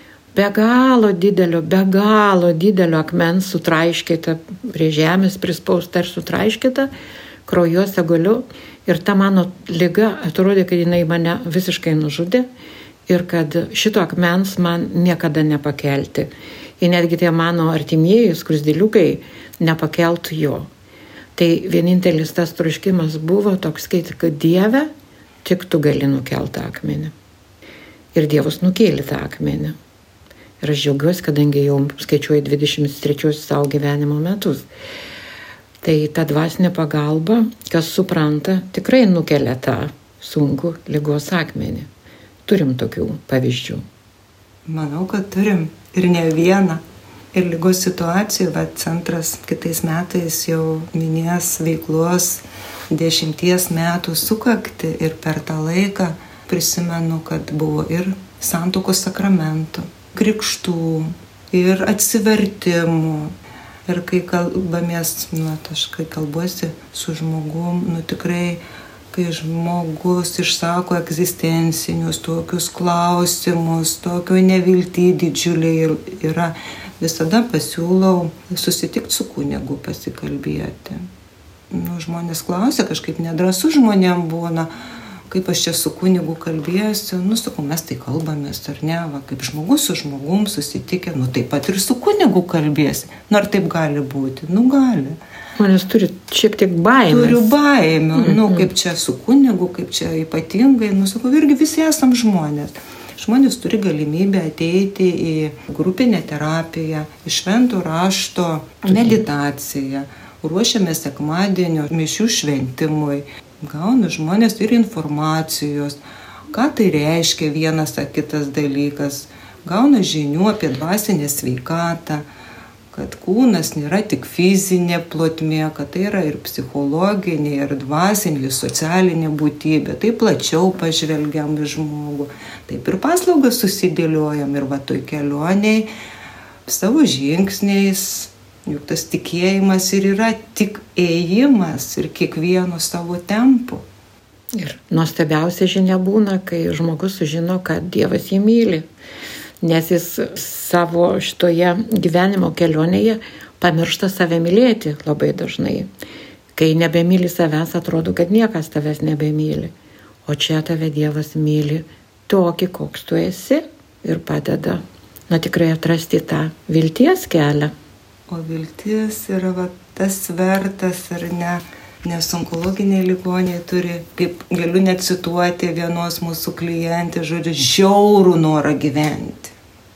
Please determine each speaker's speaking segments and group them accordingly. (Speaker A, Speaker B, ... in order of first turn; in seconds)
Speaker A: 0.3-6.9, 7.5-12.5, 13.1-20.7, 21.4-24.9, 25.4-27.1, 28.1-29.8, 30.6-34.7, 35.8-41.9, 42.5-43.8, 95.6-97.5, 98.2-98.6, 108.9-109.2, 144.5-148.8, 149.6-155.9, 156.6-159.7, 160.3-167.7
Speaker B: 44.6-63.3, 63.9-68.6, 69.1-81.1, 81.7-84.7, 85.3-95.2, 97.1-122.2, 122.9-135.9, 136.7-143.8, 168.3-179.5